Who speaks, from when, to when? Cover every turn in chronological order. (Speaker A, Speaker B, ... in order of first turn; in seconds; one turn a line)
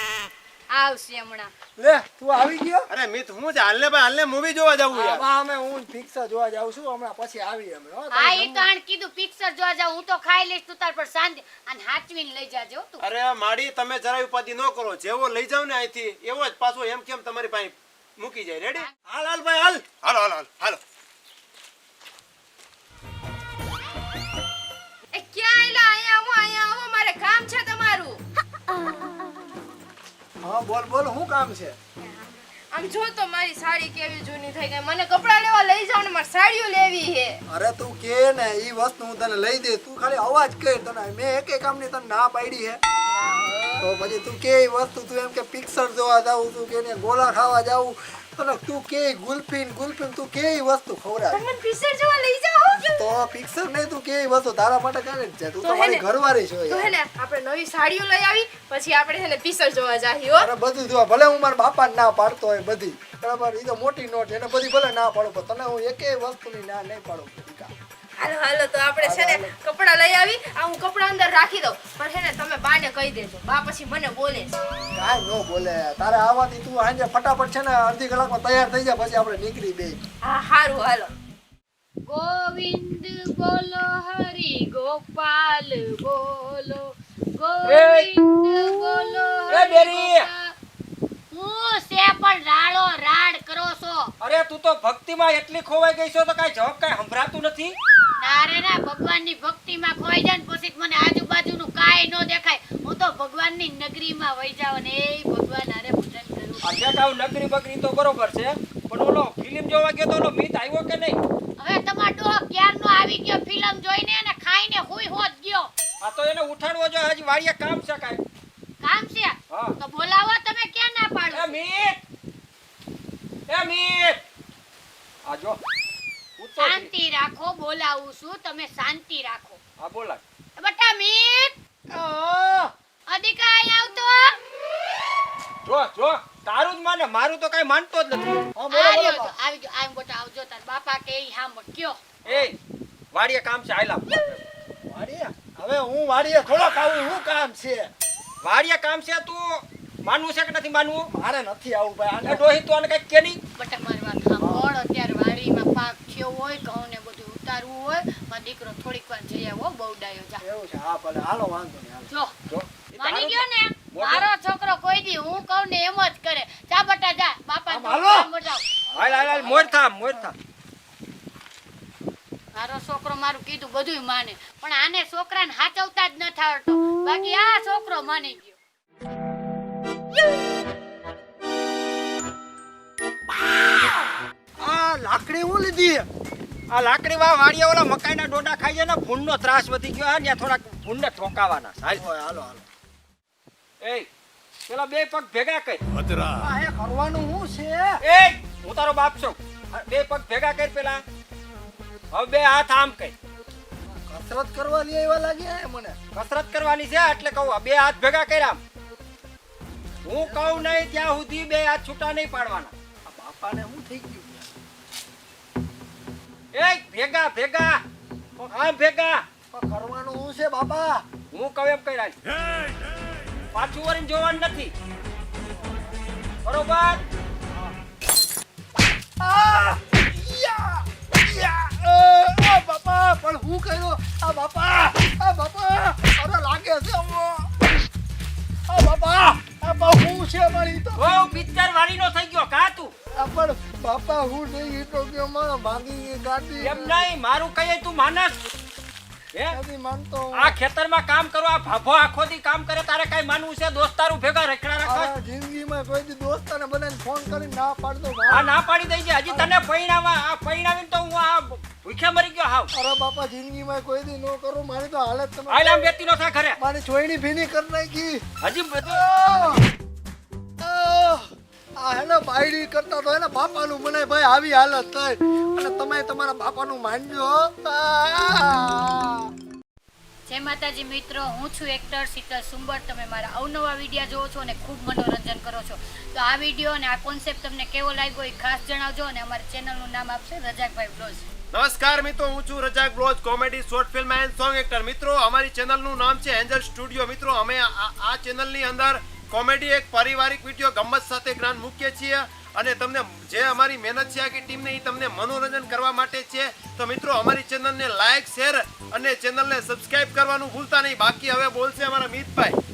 Speaker A: 0.7-1.5
Speaker B: 1.8-2.9
Speaker C: 2.9-5.2
Speaker B: 4.9-8.7
Speaker A: 8.1-13.0
Speaker C: 13.0-18.9
Speaker D: 19.1-19.8
Speaker C: 20.0-20.8
Speaker E: 25.1-28.2
Speaker B: 30.4-31.8
Speaker E: 32.7-37.4
Speaker B: 37.5-42.8
Speaker E: 43.1-43.9
Speaker B: 43.8-51.5
Speaker E: 51.3-53.0
Speaker B: 52.8-56.9
Speaker E: 55.6-56.0
Speaker E: 56.7-60.5
Speaker B: 60.4-67.7
Speaker E: 68.2-74.5
Speaker B: 69.0-69.5
Speaker B: 74.9-80.0
Speaker E: 80.2-81.1
Speaker A: 82.1-90.5
Speaker D: 87.7-88.1
Speaker D: 89.5-90.3
Speaker A: 91.3-94.1
Speaker D: 94.2-97.8
Speaker A: 98.2-106.8
Speaker D: 106.6-111.2
Speaker A: 111.6-115.7
Speaker D: 116.0-118.2
Speaker A: 118.8-121.6
Speaker D: 119.5-119.8
Speaker D: 121.3-122.0
Speaker D: 123.5-124.2
Speaker D: 125.2-125.6
Speaker D: 126.4-126.9
Speaker A: 126.6-129.6
Speaker D: 129.8-130.2
Speaker A: 130.6-131.6
Speaker B: 131.9-132.7
Speaker A: 133.1-134.4
Speaker D: 135.7-138.5
Speaker B: 138.6-139.3
Speaker A: 138.7-142.0
Speaker D: 142.2-142.6
Speaker D: 143.1-144.4
Speaker B: 144.9-147.9
Speaker D: 148.4-151.1
Speaker B: 151.1-152.5
Speaker D: 152.2-153.4
Speaker A: 153.6-160.4
Speaker B: 154.4-154.7
Speaker B: 160.4-162.1
Speaker D: 162.5-164.3
Speaker A: 163.0-168.6
Speaker B: 167.7-168.3
Speaker B: 168.9-169.8
Speaker D: 168.9-170.3
Speaker A: 172.6-178.6
Speaker B: 184.6-186.1
Speaker D: 186.7-192.0
Speaker B: 191.9-192.7
Speaker D: 193.8-194.1
Speaker D: 194.7-195.8
Speaker B: 196.2-198.0
Speaker D: 198.0-201.0
Speaker D: 202.1-203.2
Speaker B: 203.9-206.0
Speaker D: 206.1-208.6
Speaker D: 210.0-212.7
Speaker B: 210.1-210.8
Speaker B: 213.1-214.5
Speaker D: 216.5-217.8
Speaker D: 218.4-219.2
Speaker B: 219.5-221.1
Speaker D: 221.3-222.2
Speaker D: 223.5-224.7
Speaker B: 225.6-225.9
Speaker D: 226.4-227.0
Speaker B: 229.2-237.7
Speaker B: 238.7-241.1
Speaker D: 241.0-242.9
Speaker B: 243.1-247.0
Speaker D: 246.6-248.4
Speaker D: 249.3-249.6
Speaker B: 249.5-250.6
Speaker D: 250.3-255.1
Speaker B: 254.8-258.5
Speaker D: 258.3-262.7
Speaker B: 259.3-259.5
Speaker B: 262.7-265.8
Speaker D: 265.5-266.6
Speaker B: 266.6-268.2
Speaker D: 268.4-269.1
Speaker B: 268.9-269.6
Speaker B: 270.6-279.3
Speaker A: 280.3-291.3
Speaker C: 291.5-312.6